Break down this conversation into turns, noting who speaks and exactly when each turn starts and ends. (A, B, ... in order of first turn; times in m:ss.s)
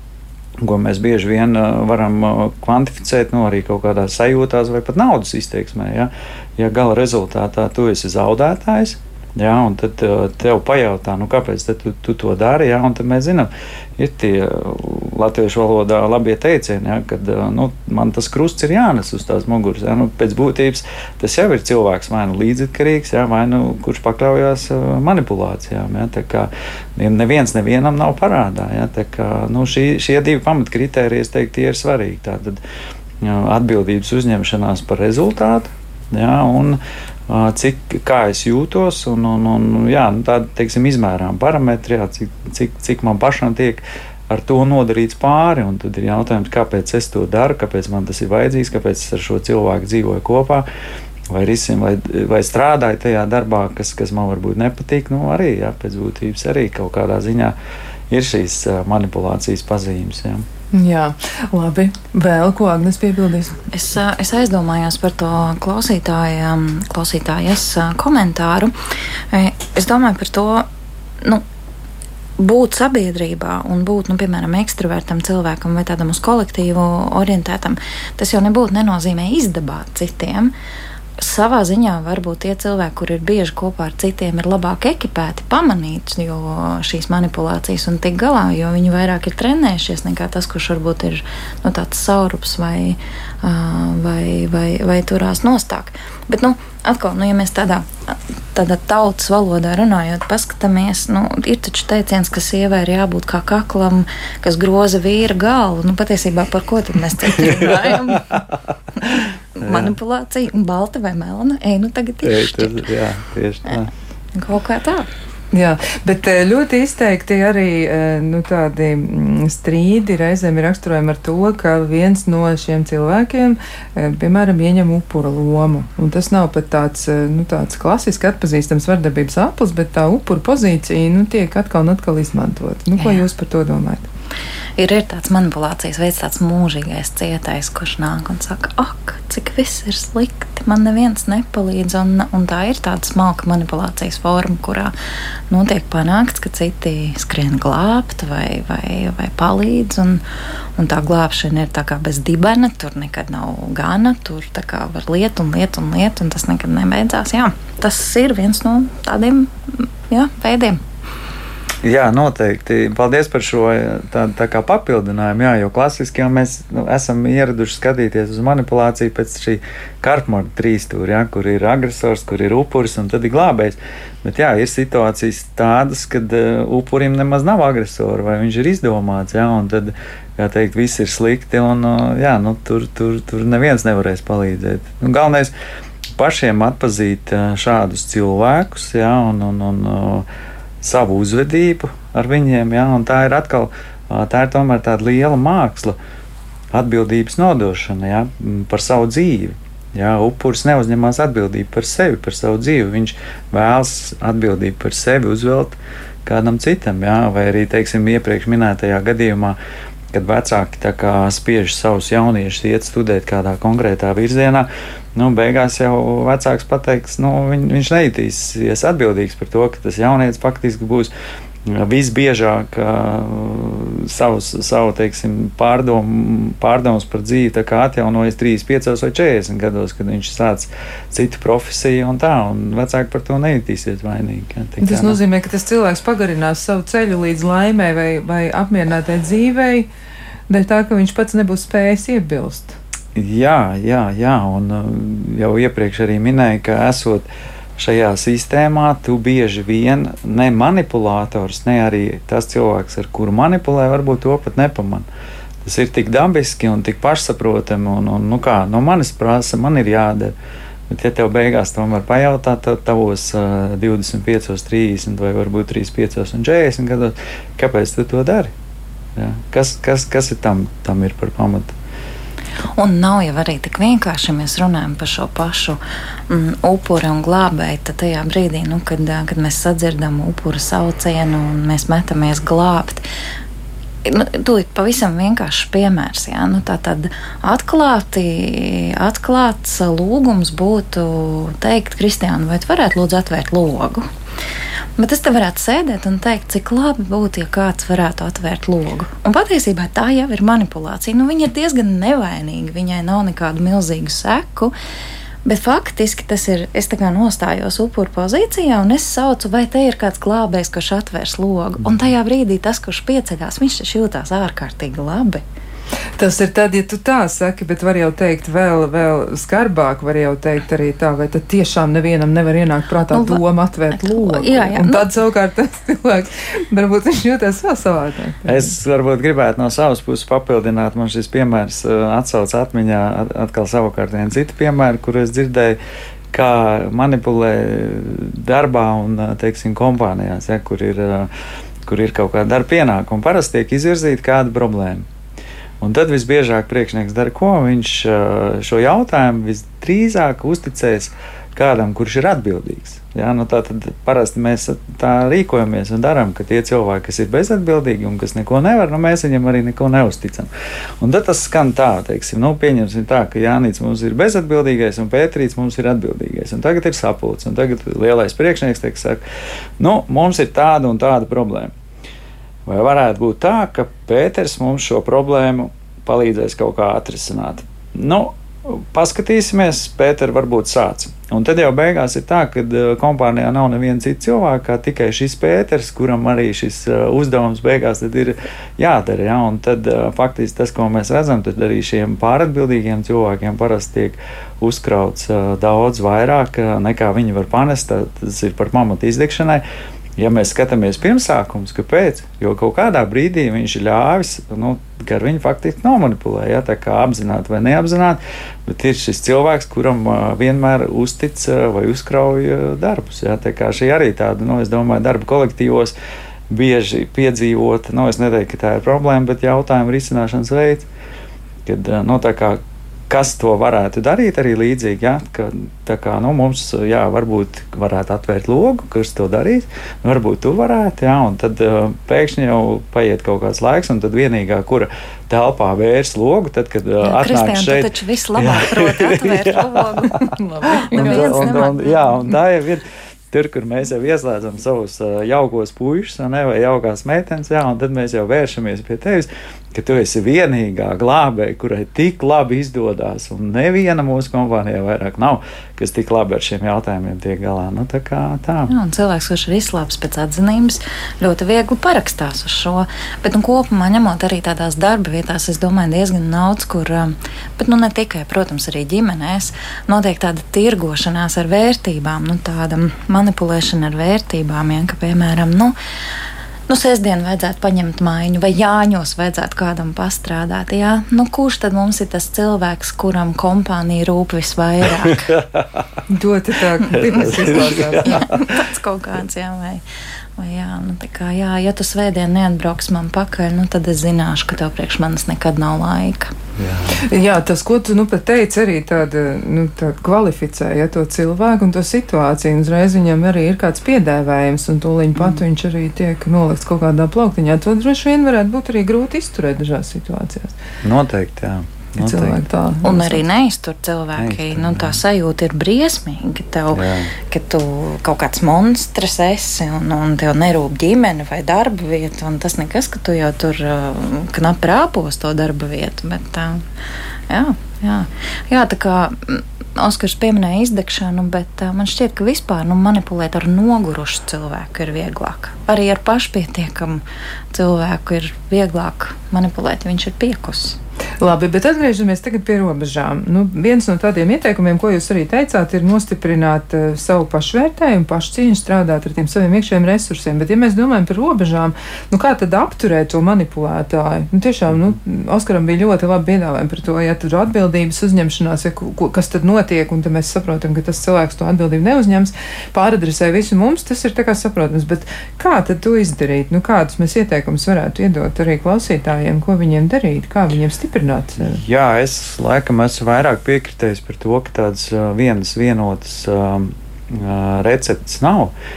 0:00.6-0:32.6 A
0:33.2-0:50.7 A
0:51.3-0:57.6 A
0:58.1-1:00.4 A
1:00.7-1:03.6 B
1:03.7-1:08.7 C
1:09.3-1:10.6 C
1:12.4-1:20.5 C
1:21.2-1:48.4 C
1:47.4-1:48.4 A
1:49.0-1:52.8 C
1:49.6-1:49.9 A
1:52.2-1:53.9 A
1:54.4-1:55.1 C
1:55.5-2:14.1 B
2:13.0-2:13.2 C
2:14.8-2:24.9 C
2:25.5-2:30.2 C
2:30.8-2:40.8 C
2:41.8-3:05.5 A
3:06.2-3:10.2 A
3:10.8-3:16.0 A
3:16.7-3:29.6 A
3:30.1-3:41.1 A
3:41.7-3:55.2 A
3:54.8-3:59.9 B
4:00.5-4:02.8 B
4:03.1-4:15.1 A
4:15.6-4:20.3 A
4:20.9-4:28.5 A
4:29.2-4:31.7 A
4:32.8-4:43.0 C
4:44.0-4:54.0 C
4:55.0-5:04.7 C
5:05.4-5:15.4 C
5:16.2-5:28.7 B
5:23.1-5:23.4 C
5:23.9-5:25.1 C
5:28.4-5:35.8 A
5:36.3-5:41.3 A
5:41.8-5:45.0 A
5:45.8-6:00.5 A
6:01.0-6:09.2 A
6:09.8-6:11.7 A
6:12.6-6:39.6 A
6:40.2-6:55.9 A
6:56.5-7:00.9 A
7:01.6-7:20.2 A
7:17.0-7:22.2 C
7:20.4-7:21.7 B
7:20.8-7:38.7 A
7:38.7-7:55.8 C
7:56.7-8:05.3 C
8:05.0-8:05.9 A
8:06.1-8:08.5 B
8:06.9-8:08.3 A
8:07.2-8:09.8 C
8:10.4-8:16.3 C
8:16.6-8:17.0 A
8:16.9-8:30.5 B
8:30.8-8:32.4 A
8:32.0-8:33.2 B
8:32.8-8:46.6 C
8:34.2-8:35.0 A
8:36.7-8:37.1 A
8:47.3-9:00.8 C
9:01.2-9:31.6 B
9:31.4-9:38.5 A